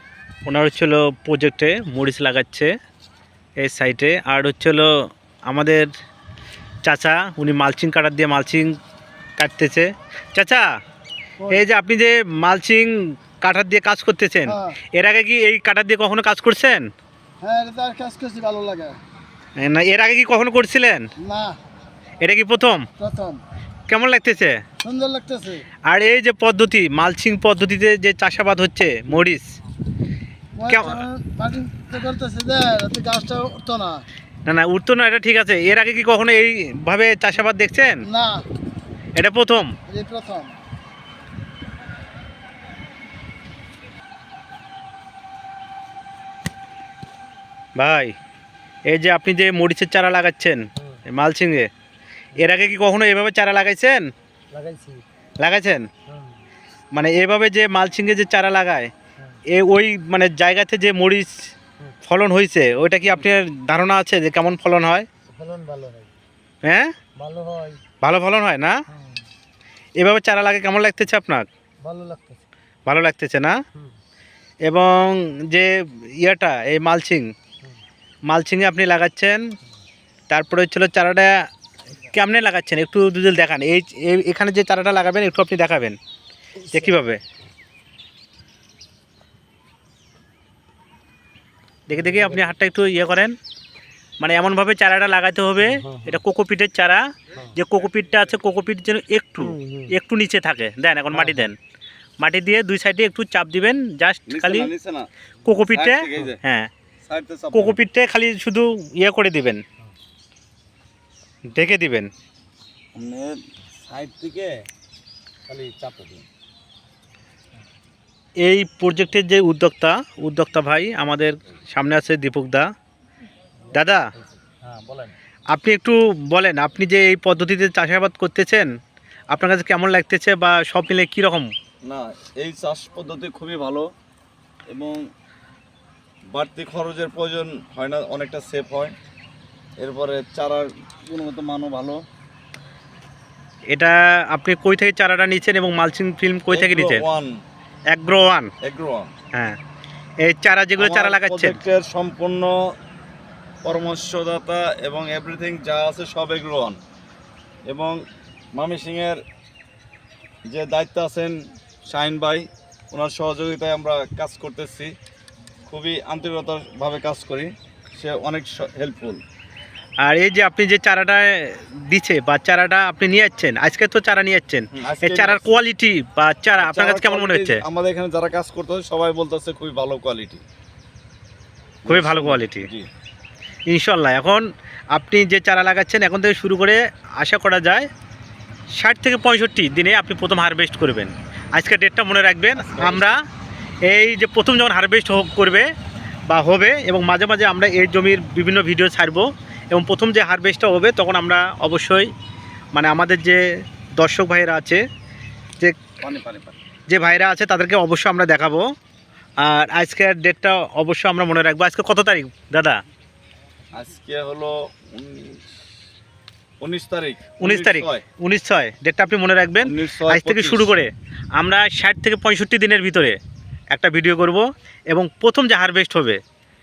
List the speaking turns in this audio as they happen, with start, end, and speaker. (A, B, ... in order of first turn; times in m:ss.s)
0:00.4-0:02.7 A
0:03.6-0:04.9 A
0:05.5-0:05.9 A
0:06.8-0:08.8 A
0:09.4-0:10.6 A
0:11.5-0:16.9 A
0:14.5-0:14.8 B
0:17.4-0:19.0 B
0:19.6-0:21.1 A
0:21.2-0:21.6 B
0:22.2-0:22.9 A
0:23.0-0:23.4 B
0:23.9-0:24.6 A
0:24.8-0:25.6 B
0:25.9-0:29.5 A
0:30.6-0:34.0 B
0:30.7-0:31.0 A
0:34.4-0:38.0 A
0:38.1-0:38.4 B
0:39.2-0:39.7 A
0:39.9-0:40.5 B
0:47.8-0:48.1 A
0:48.9-0:51.7 A
0:52.3-0:54.1 A
0:54.6-0:55.0 B
0:55.4-0:55.9 A
0:56.9-0:58.9 A
0:59.5-1:01.3 A
1:02.0-1:05.0 A
1:05.4-1:06.1 B
1:06.6-1:06.9 A
1:07.2-1:07.8 B
1:08.0-1:08.8 A
1:10.0-1:11.5 A
1:11.8-1:12.4 B
1:12.9-1:13.5 A
1:14.6-1:17.3 A
1:18.3-1:19.4 A
1:20.3-1:21.3 A
1:22.1-1:26.0 A
1:26.7-1:27.2 A
1:31.9-1:33.3 A
1:34.2-1:41.6 A
1:42.2-1:44.7 A
1:44.3-1:45.1 C
1:45.4-1:46.7 A
1:45.7-1:46.4 C
1:47.0-1:47.8 C
1:47.5-1:49.6 A
1:51.5-1:52.1 A
1:52.9-1:54.6 C
1:55.5-1:56.2 C
1:58.4-2:02.7 A
2:03.7-2:04.1 A
2:04.2-2:05.1 C
2:05.5-2:08.7 A
2:09.3-2:11.5 A
2:11.8-2:13.9 C
2:14.7-2:15.0 C
2:16.3-2:19.0 C
2:19.8-2:22.0 C
2:23.7-2:27.0 A
2:26.5-2:27.4 C
2:27.9-2:28.5 A
2:28.6-2:29.1 C
2:30.2-2:31.6 A
2:30.8-2:32.6 C
2:33.6-2:36.8 C
2:37.7-2:38.0 C
2:38.5-2:39.2 C
2:40.5-2:44.9 C
2:45.7-2:49.2 C
2:50.0-2:57.6 A
2:54.7-2:55.6 C
2:56.6-3:00.4 C
3:01.8-3:02.9 C
3:01.8-3:02.7 A
3:03.7-3:07.9 A
3:08.8-3:13.2 A
3:12.5-3:13.2 C
3:13.8-3:15.7 A
3:16.3-3:22.1 A
3:22.7-3:23.4 A
3:24.0-3:24.8 A
3:26.0-3:26.6 C
3:26.9-3:28.6 A
3:29.4-3:32.8 A
3:33.7-3:35.4 C
3:36.6-3:38.0 C
3:37.4-3:43.2 A
3:39.6-3:40.7 C
3:43.7-3:46.2 A